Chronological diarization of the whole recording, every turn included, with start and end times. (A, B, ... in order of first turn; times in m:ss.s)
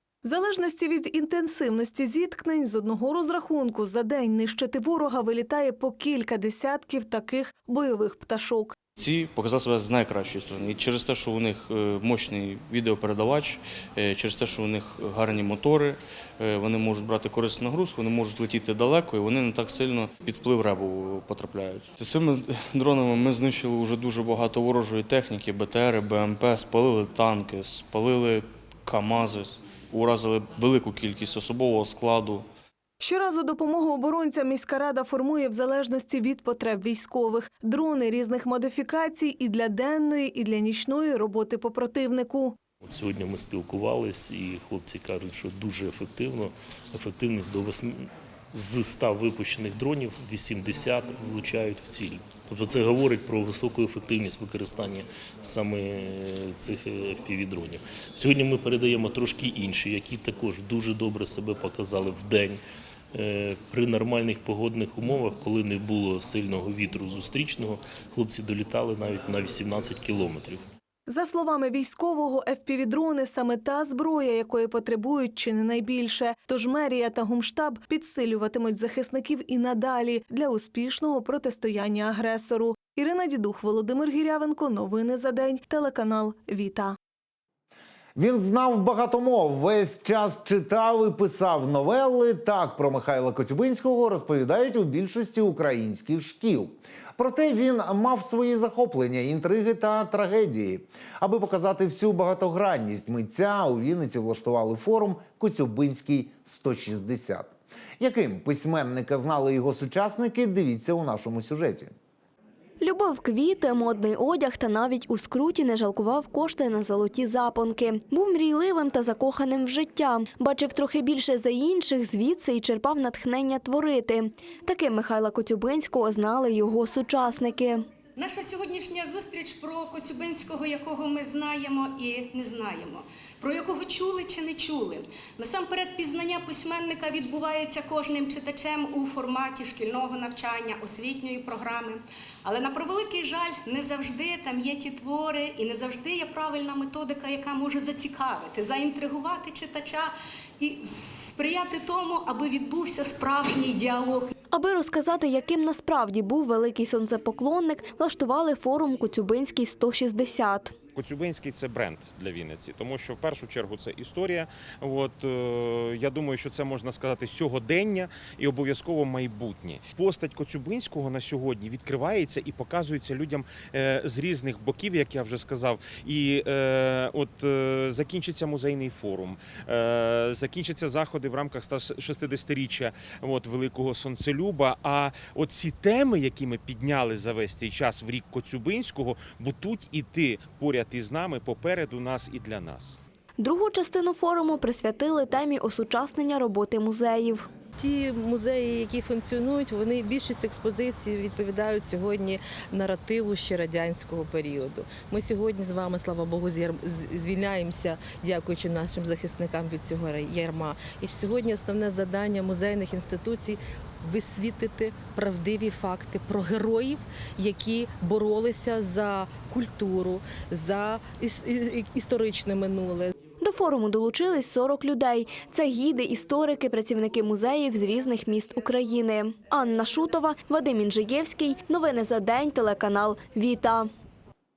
0:00.2-0:08.8 A
0:09.0-0:32.5 B
0:33.0-0:42.6 A
0:42.8-1:02.6 C
1:03.1-1:10.6 C
1:11.1-1:27.0 A
1:28.2-1:51.9 D
1:52.8-2:07.8 E
2:08.2-2:34.3 F
2:34.5-2:40.8 E
2:41.0-3:13.0 G
3:13.4-3:17.5 E
3:17.8-3:43.1 H
3:43.4-3:53.9 E